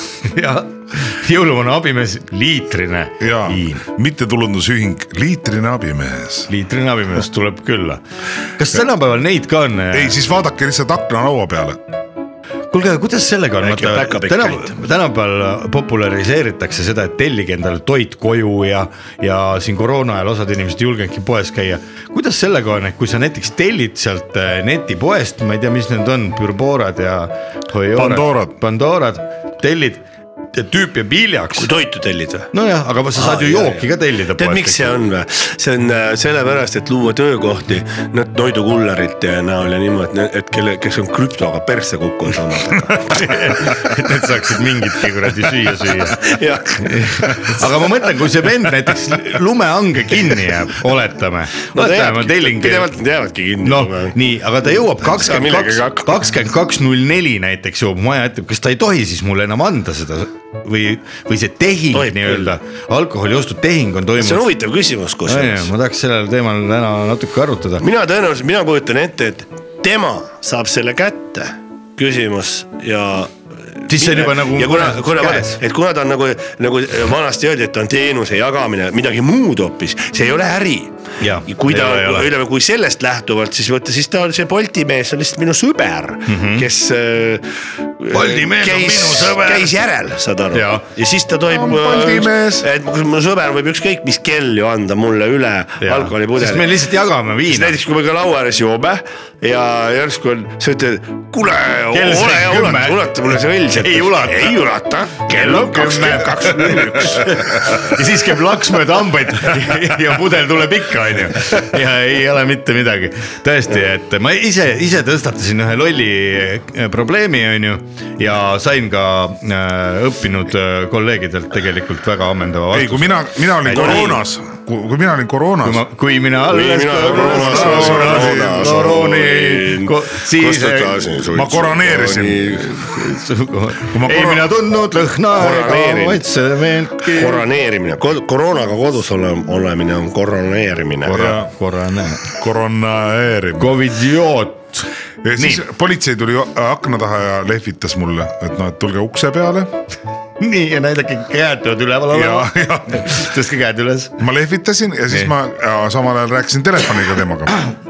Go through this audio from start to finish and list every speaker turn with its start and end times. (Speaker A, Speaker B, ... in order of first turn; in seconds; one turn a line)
Speaker A: 0.2-3.8
Speaker B: 3.2-6.5
Speaker A: 6.5-8.0
Speaker A: 8.6-10.2
Speaker B: 9.9-11.8
Speaker A: 12.7-31.7
Speaker C: 13.6-14.7
Speaker B: 27.9-28.5
Speaker C: 31.6-32.5
Speaker A: 32.5-35.0
Speaker C: 33.1-43.9
Speaker A: 43.1-52.9
Speaker C: 46.0-47.0
Speaker C: 51.7-54.2
Speaker A: 53.6-64.5
Speaker C: 54.7-56.3
Speaker C: 61.9-62.5
Speaker C: 64.2-65.7
Speaker A: 65.2-67.8
Speaker C: 67.8-80.9
Speaker A: 73.9-75.6
Speaker A: 81.2-82.3
Speaker C: 81.5-87.4
Speaker A: 86.2-86.7
Speaker C: 88.0-96.8
Speaker A: 88.1-89.7
Speaker A: 90.5-90.8
Speaker B: 91.5-92.7
Speaker A: 95.8-97.7
Speaker C: 97.5-107.8
Speaker A: 101.9-103.2
Speaker A: 103.7-104.5
Speaker A: 105.3-124.2
Speaker B: 122.7-125.8
Speaker C: 123.8-124.2
Speaker A: 125.6-131.2
Speaker C: 126.5-132.7
Speaker B: 127.0-128.9
Speaker B: 131.3-132.6
Speaker A: 132.7-137.4
Speaker B: 133.9-134.5
Speaker C: 135.3-136.2
Speaker C: 137.1-141.3
Speaker A: 141.0-142.3
Speaker B: 141.1-141.5
Speaker B: 142.2-143.7
Speaker A: 143.6-145.6
Speaker B: 145.2-149.7
Speaker A: 150.4-154.2
Speaker B: 152.1-153.3
Speaker B: 154.2-157.6